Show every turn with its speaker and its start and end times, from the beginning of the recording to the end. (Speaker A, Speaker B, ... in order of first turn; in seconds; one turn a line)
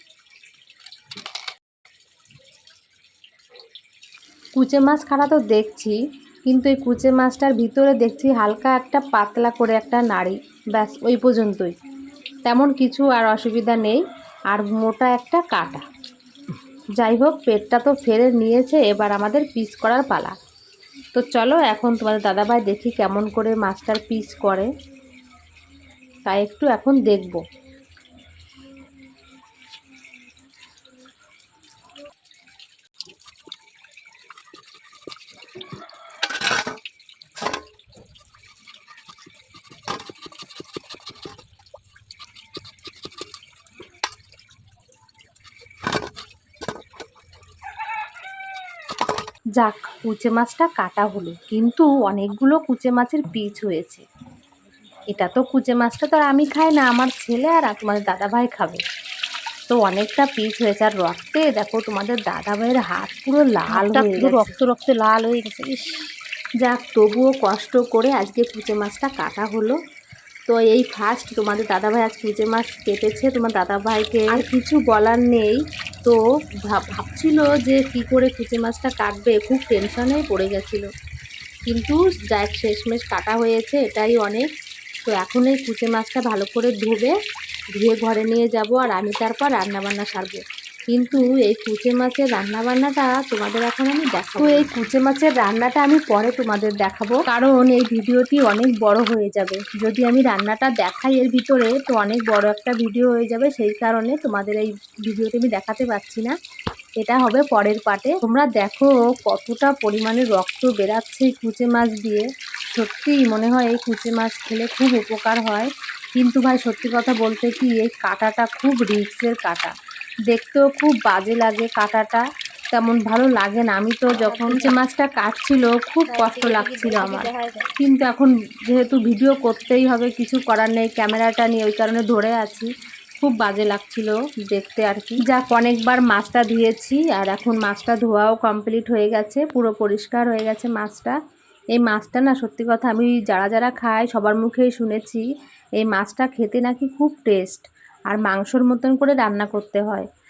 Speaker A: 4.5-11.7
Speaker A: 12.4-14.0
Speaker A: 14.5-15.8
Speaker A: 17.0-20.3
Speaker A: 21.1-24.7
Speaker A: 26.2-27.4
Speaker A: 49.6-54.0
Speaker A: 55.1-58.8
Speaker A: 59.7-64.5
Speaker B: 63.7-66.2
Speaker A: 66.6-69.8
Speaker A: 70.5-80.9
Speaker A: 81.7-84.5
Speaker A: 85.0-87.1
Speaker A: 87.7-106.3
Speaker B: 94.3-94.7
Speaker A: 107.0-119.7
Speaker A: 120.3-132.7
Speaker B: 124.1-124.8
Speaker B: 126.1-127.7
Speaker A: 133.2-141.1
Speaker A: 141.7-145.2
Speaker A: 145.8-150.1